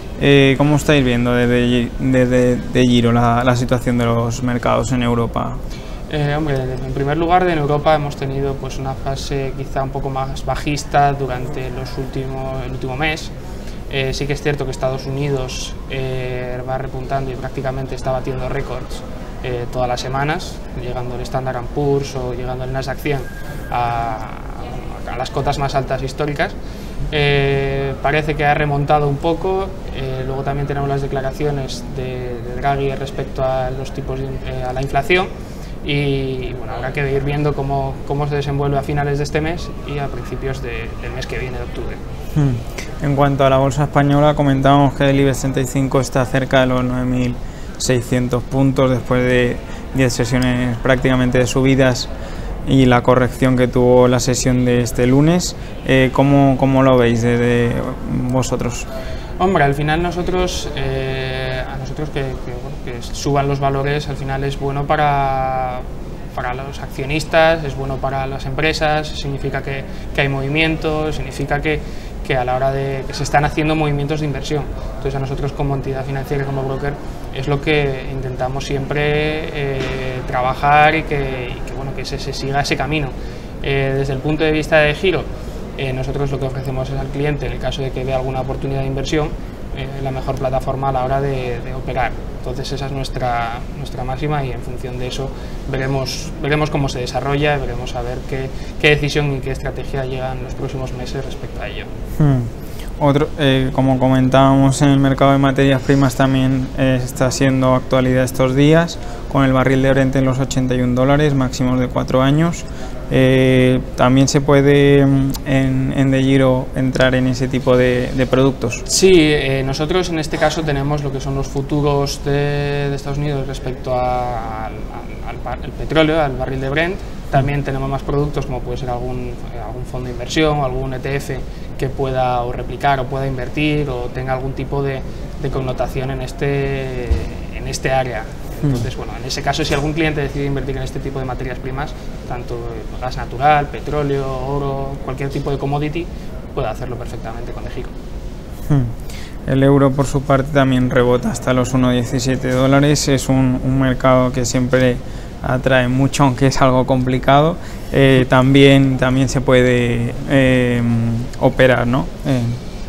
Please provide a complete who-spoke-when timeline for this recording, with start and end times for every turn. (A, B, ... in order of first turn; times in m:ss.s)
0:00.2-0:05.6 A
0:06.1-0:13.3 B
0:13.9-0:26.6 B
0:27.1-0:35.3 B
0:35.8-0:42.0 B
0:42.3-0:52.1 A
0:52.6-0:58.9 A
0:59.4-1:41.9 B
1:42.2-1:58.8 A
1:58.8-2:27.9 B
2:28.7-2:28.9 A
2:29.5-2:42.6 A